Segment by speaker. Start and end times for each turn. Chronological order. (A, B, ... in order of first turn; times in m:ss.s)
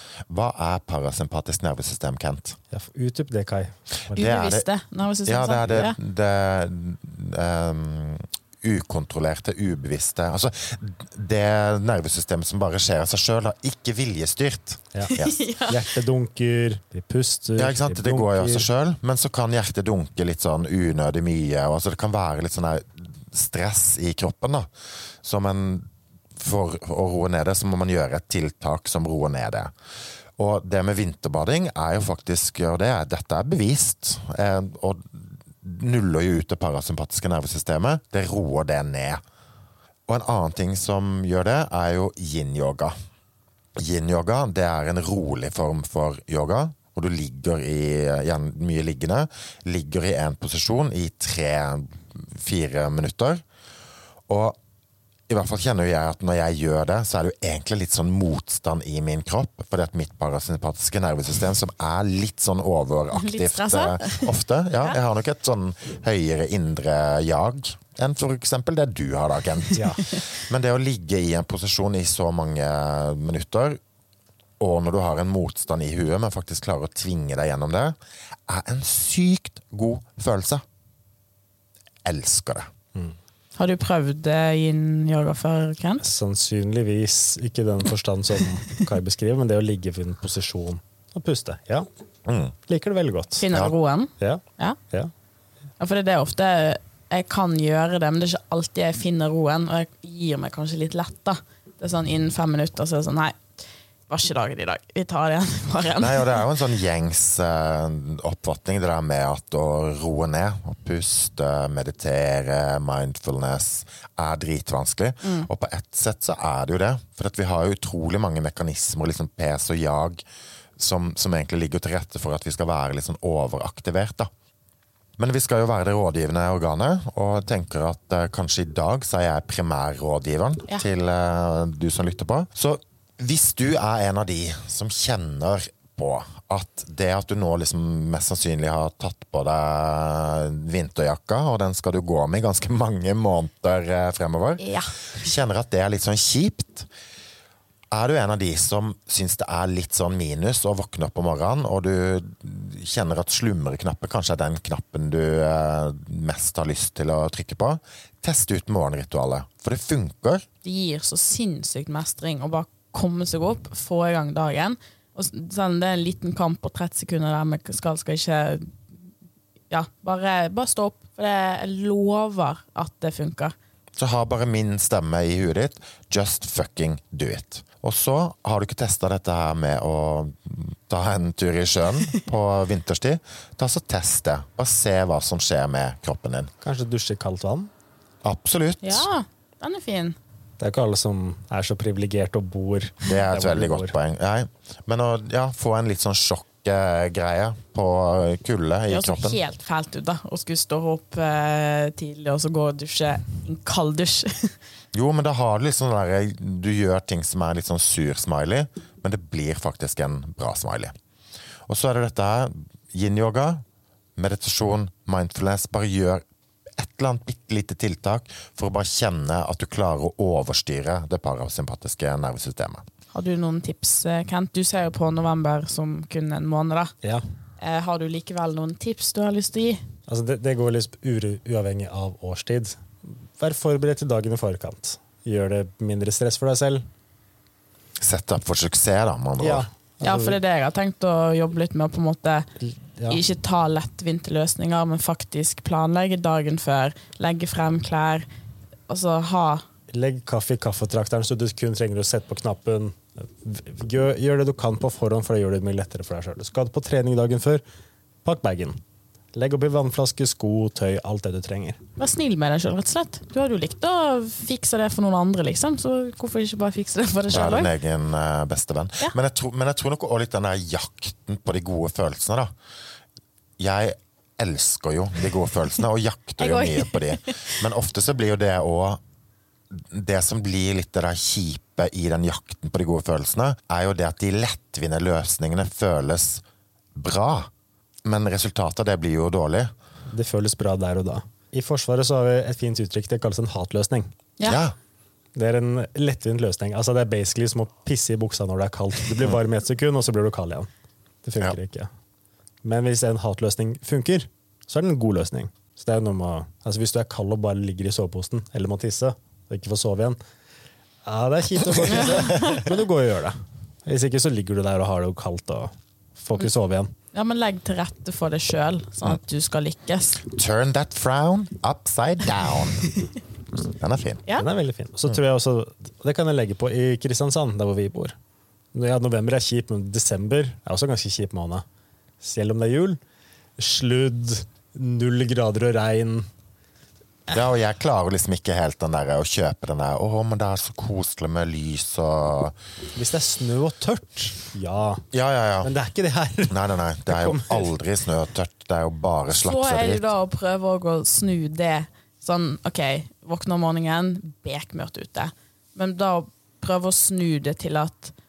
0:00.3-0:02.6 A
0:02.7-0:04.2 B
0:04.1-0:04.7 A
0:04.1-0:06.0 C
0:05.2-0:15.4 A
0:15.1-0:15.8 C
0:15.7-0:18.7 B
0:17.6-0:24.7 A
0:25.2-0:29.7 A
0:30.4-0:39.2 A
0:40.1-0:42.9 A
0:43.8-0:53.4 A
0:54.3-0:54.6 A
0:55.3-1:13.8 A
1:03.1-1:04.3 C
1:09.7-1:10.0 B
1:14.6-1:18.0 A
1:18.5-1:20.6 A
1:22.0-1:22.7 A
1:23.6-1:26.0 C
1:26.0-1:31.9 B
1:32.2-1:32.5 A
1:32.7-1:33.5 B
1:33.4-1:34.8 C
1:34.2-1:35.1 B
1:35.8-1:43.4 C
1:44.1-1:46.4 C
1:46.0-2:00.2 A
1:55.2-1:55.5 C
2:00.8-2:04.3 A
2:05.2-2:26.9 A
2:24.6-2:24.9 C
2:27.9-2:40.4 A
2:40.6-2:48.7 C
2:49.7-2:53.5 C
2:54.0-3:06.5 A
3:06.6-3:07.7 B
3:08.2-3:09.1 A
3:08.8-3:10.2 C
3:10.6-3:13.9 B
3:13.0-3:19.4 A
3:18.9-3:24.5 C
3:24.9-3:30.9 A
3:31.7-3:33.6 A
3:34.2-3:36.2 A
3:36.8-3:42.8 A
3:43.1-3:46.9 C
3:47.6-3:49.8 C
3:50.1-3:56.8 B
3:58.0-3:59.7 A
3:59.4-4:00.4 B
4:00.0-4:02.5 C
4:02.6-4:03.2 B
4:03.1-4:08.3 C
4:08.9-4:09.6 C
4:09.9-4:17.6 B
4:18.2-4:18.8 B
4:19.3-4:21.8 B
4:22.0-4:27.7 C
4:27.3-4:32.5 A
4:33.6-4:39.0 A
4:36.4-4:37.5 C
4:39.7-4:46.4 A
4:47.0-4:47.5 A
4:48.0-4:49.7 A
4:50.1-4:54.1 B
4:54.4-4:54.7 A
4:55.3-5:00.7 B
5:01.2-5:01.9 B
5:02.6-5:10.2 B
5:11.0-5:16.9 B
5:12.1-5:12.6 C
5:17.1-5:20.2 C
5:20.3-5:22.9 A
5:23.7-5:24.2 A
5:24.4-5:28.2 B
5:28.7-5:31.6 B
5:32.2-5:33.0 B
5:33.6-5:36.3 B
5:37.3-5:42.5 A
5:42.9-5:45.0 B
5:45.1-5:45.7 A
5:45.6-5:47.7 B
5:46.5-5:50.1 A
5:49.3-5:58.1 C